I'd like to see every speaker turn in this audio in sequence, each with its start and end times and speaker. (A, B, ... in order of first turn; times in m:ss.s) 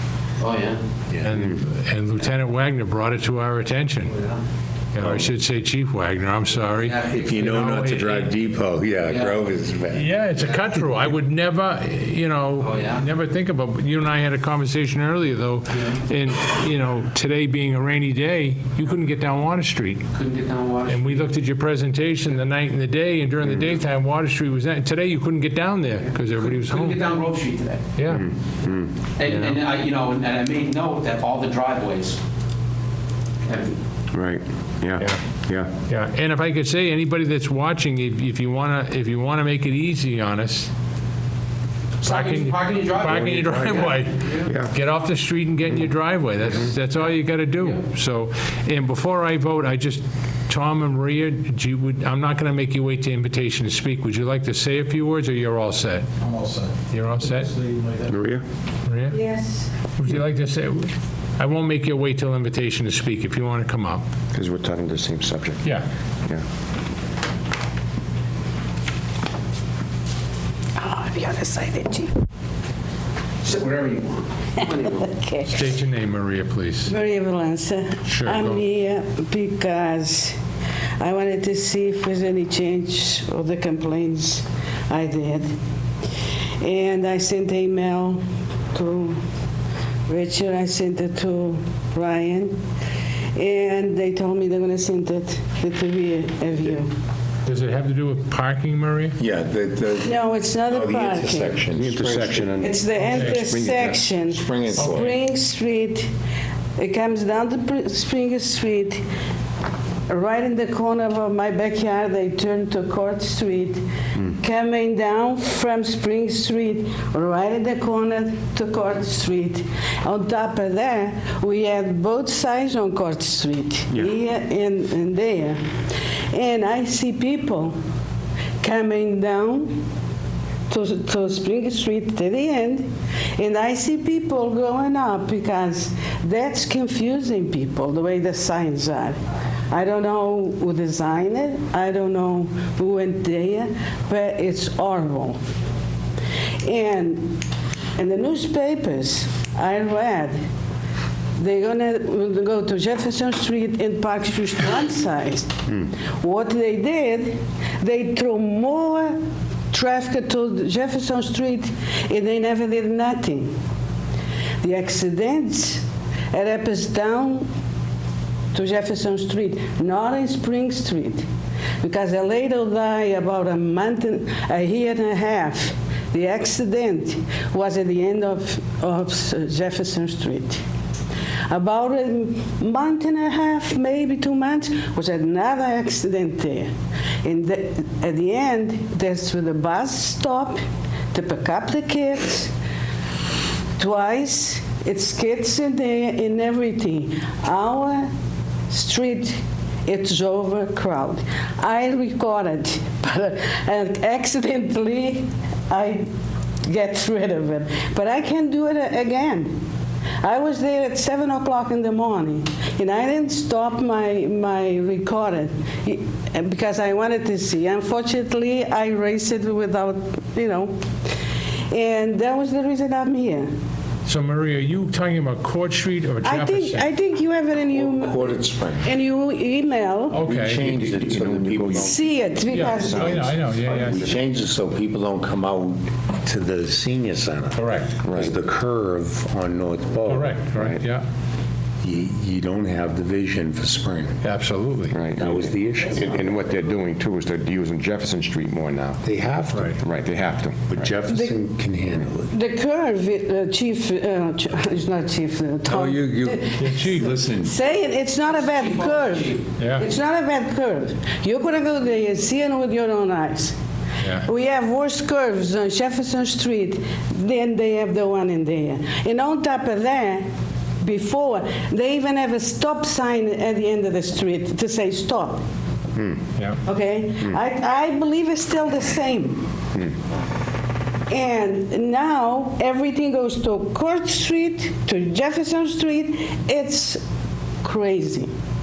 0:00.4-0:00.8 A
0:01.2-0:04.1 B
0:04.1-0:04.4 A
0:04.9-0:08.3 B
0:05.0-0:05.2 C
0:06.7-0:07.4 A
0:07.2-0:10.1 C
0:09.1-0:09.4 A
0:09.9-0:20.1 B
0:12.6-0:13.0 A
0:20.1-0:21.2 A
0:20.8-0:27.0 B
0:26.3-0:27.8 A
0:28.0-0:28.2 B
0:28.0-0:29.0 D
0:29.2-0:32.2 A
0:29.3-0:29.6 B
0:33.4-0:33.8 A
0:34.1-0:35.7 D
0:35.8-0:40.7 B
0:42.0-0:44.5 A
0:42.0-0:56.1 B
0:44.4-0:44.7 D
0:56.3-0:56.7 D
0:56.9-0:57.5 B
0:57.6-0:58.4 D
0:58.8-0:59.2 B
0:59.1-0:59.7 E
0:59.9-1:04.0 B
1:04.3-1:05.6 D
1:10.8-1:12.1 E
1:13.4-1:15.1 A
1:14.6-1:15.6 E
1:15.5-1:16.9 B
1:16.9-1:20.3 E
1:18.0-1:18.6 B
1:21.0-1:25.5 E
1:26.6-1:28.2 E
1:28.7-1:29.2 E
1:30.1-1:32.6 E
1:33.4-1:36.9 E
1:37.4-1:39.2 B
1:39.2-1:42.6 C
1:40.0-1:41.7 E
1:41.7-1:44.1 D
1:42.6-1:46.1 E
1:43.0-1:43.4 B
1:44.2-1:45.1 C
1:44.8-1:45.1 B
1:46.8-1:49.0 E
1:50.1-2:05.6 E
2:06.3-2:07.8 E
2:08.6-2:09.8 E
2:10.7-2:19.2 E
2:19.7-2:25.4 E
2:26.6-2:27.4 E
2:28.0-2:30.4 E
2:31.4-2:39.2 E
2:39.7-2:43.5 E
2:44.6-2:47.5 E
2:48.5-2:51.2 E
2:51.8-3:00.6 E
3:01.5-3:06.7 E
3:07.2-3:10.6 E
3:11.1-3:12.5 E
3:13.8-3:18.1 E
3:18.7-3:26.0 E
3:26.6-3:29.6 E
3:30.2-3:40.8 E
3:41.7-3:43.5 E
3:44.0-3:46.9 B
3:46.2-3:50.3 E
3:47.7-3:48.9 C
3:50.1-3:50.6 B
3:50.2-3:52.1 C
3:50.5-3:52.0 D
3:51.7-3:53.3 E
3:52.5-3:54.1 B
3:52.7-3:54.1 D
3:53.0-4:00.5 C
3:57.5-3:58.0 B
3:58.0-3:58.3 D
4:00.0-4:01.0 B
4:00.5-4:00.8 D
4:01.8-4:04.2 C
4:04.2-4:05.0 B
4:04.9-4:09.0 D
4:05.2-4:06.2 C
4:09.0-4:09.8 C
4:09.5-4:09.8 B
4:09.8-4:11.0 D
4:10.7-4:12.3 C
4:11.1-4:11.4 E
4:12.3-4:23.5 E
4:15.7-4:17.5 C
4:16.6-4:17.2 B
4:18.3-4:19.4 A
4:19.6-4:19.9 B
4:24.0-4:24.3 B
4:24.2-4:30.3 E
4:30.8-4:35.4 E
4:36.0-4:36.2 D
4:36.4-4:36.6 B
4:36.6-4:39.5 E
4:41.1-4:47.0 E
4:47.6-4:48.3 E